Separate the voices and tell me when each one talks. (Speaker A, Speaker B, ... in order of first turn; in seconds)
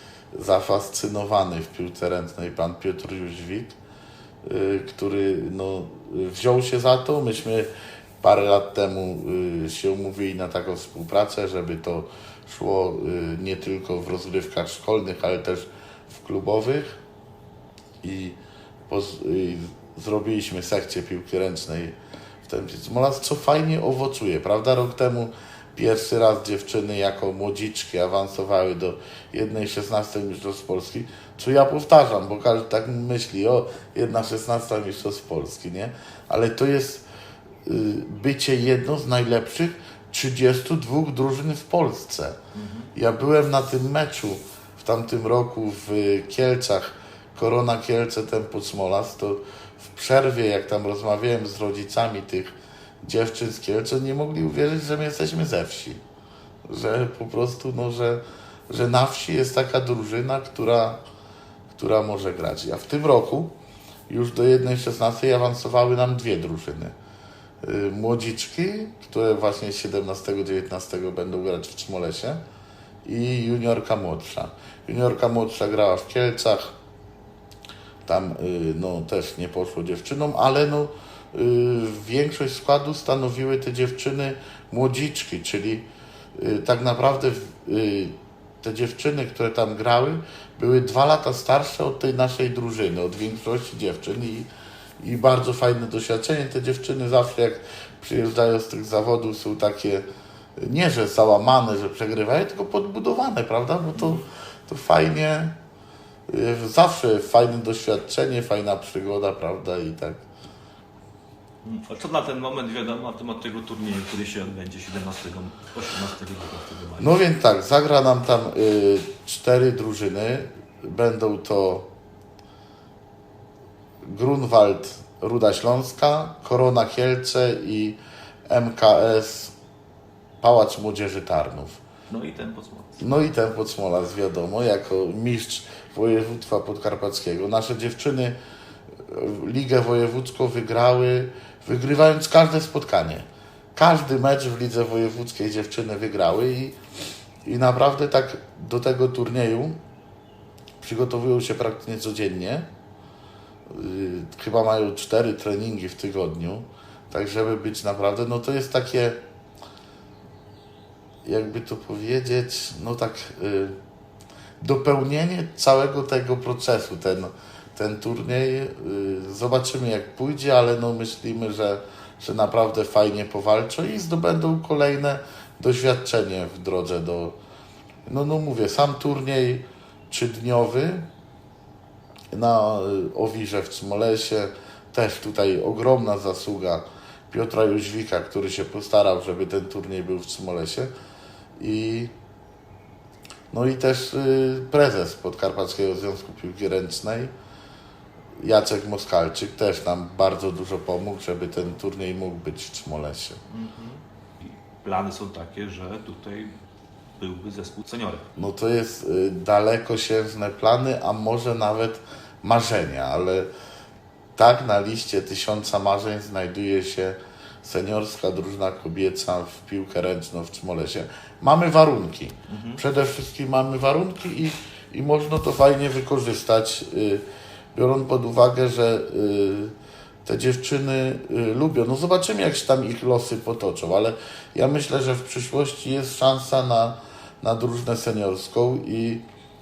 Speaker A: 0.3-3.8, 4.4-7.7, 8.2-17.0, 18.0-18.4, 18.9-37.0, 37.6-42.4, 42.9-56.0, 56.7-61.0, 61.7-63.5, 64.1-66.9, 67.6-72.4, 73.0-76.8, 78.1-94.5, 95.0-100.0, 100.6-105.6, 106.3-110.2, 117.0-121.9, 124.0-128.0, 128.5-129.6, 130.4-131.8, 133.0-138.4, 139.1-146.8, 147.4-149.8, 150.8-152.7, 153.7-159.2, 161.2-163.8, 164.6-177.4, 178.1-181.1, 182.3-190.9, 191.6-192.1, 193.5-197.3, 198.4-203.4, 208.4-213.5, 214.4-239.2
Speaker B: 42.5-42.9, 103.9-104.2, 111.6-117.2, 132.1-133.0, 203.5-206.5, 207.2-208.3, 222.5-222.8